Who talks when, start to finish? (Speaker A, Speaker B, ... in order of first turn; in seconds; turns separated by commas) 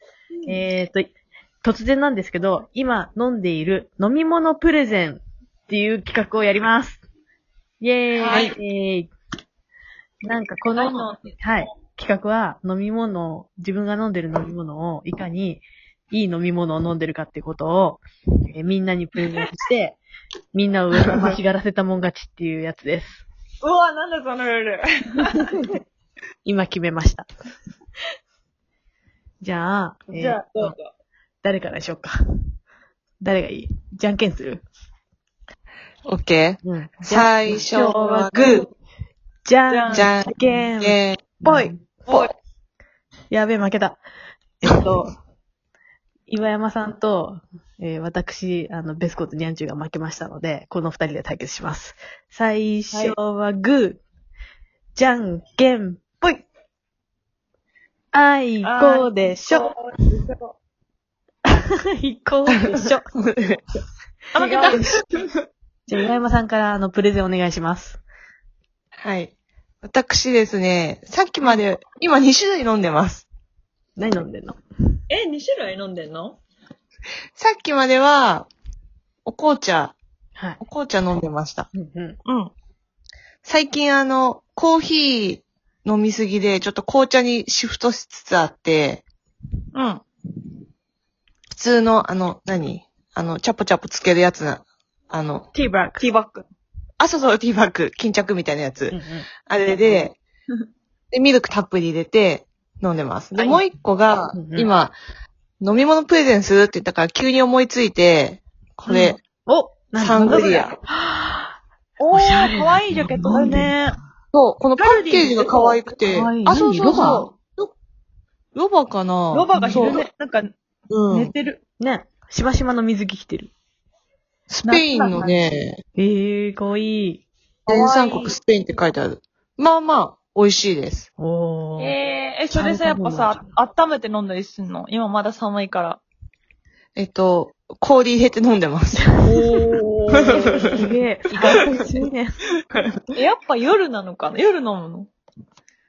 Speaker A: 0.5-1.1, Speaker A: 1.6-7.0, Speaker A: 7.8-9.1, Speaker B: 8.1-8.5, Speaker C: 8.2-8.6, Speaker A: 10.2-20.0, Speaker B: 10.7-11.7, Speaker A: 20.5-23.2, Speaker B: 23.6-25.6, Speaker A: 26.4-27.3, Speaker A: 29.4-30.7, Speaker B: 30.1-30.9, Speaker A: 31.4-32.1, Speaker A: 33.2-34.6, Speaker C: 36.0-38.7, Speaker A: 36.6-38.6, Speaker A: 39.4-41.8, Speaker B: 39.7-40.6, Speaker C: 39.9-42.3, Speaker B: 42.0-42.3, Speaker A: 43.3-44.0, Speaker A: 44.6-45.1, Speaker A: 46.3-54.0, Speaker B: 52.9-53.2, Speaker A: 54.9-56.3, Speaker A: 58.1-59.7, Speaker B: 58.6-60.5, Speaker A: 61.5-63.1, Speaker C: 62.5-63.6, Speaker C: 64.3-65.0, Speaker B: 64.3-64.9, Speaker A: 65.9-68.0, Speaker C: 69.0-69.3, Speaker C: 69.8-73.2, Speaker A: 74.0-74.6, Speaker B: 75.1-76.4, Speaker C: 77.4-78.5, Speaker C: 79.2-80.0, Speaker A: 80.3-80.6, Speaker C: 80.6-81.7, Speaker A: 81.7-82.2, Speaker B: 82.2-82.5, Speaker C: 83.4-89.0, Speaker B: 89.7-90.0, Speaker C: 91.5-95.5, Speaker A: 95.5-96.0, Speaker B: 96.0-96.5, Speaker C: 97.0-100.2, Speaker A: 98.9-99.3, Speaker C: 101.1-104.9, Speaker A: 103.3-103.6, Speaker A: 104.3-104.7, Speaker C: 105.6-109.2, Speaker A: 108.9-111.5, Speaker C: 110.0-110.8, Speaker B: 110.2-110.7, Speaker B: 112.0-114.0, Speaker A: 112.1-113.7, Speaker C: 114.3-117.7, Speaker B: 114.8-115.8, Speaker A: 116.1-117.3, Speaker B: 116.9-117.2, Speaker C: 118.5-120.0, Speaker B: 119.3-120.5, Speaker A: 119.5-120.0, Speaker C: 120.9-121.3, Speaker B: 121.1-121.6, Speaker A: 121.8-123.5, Speaker C: 124.5-125.8, Speaker B: 124.6-125.3, Speaker A: 126.0-127.2, Speaker B: 127.7-128.3, Speaker C: 127.7-131.1, Speaker A: 131.2-131.9, Speaker B: 131.8-136.0, Speaker A: 132.5-133.4, Speaker C: 136.9-139.2, Speaker A: 139.1-139.5, Speaker B: 139.2-142.0, Speaker C: 140.2-140.8, Speaker A: 140.3-142.3, Speaker B: 143.1-145.1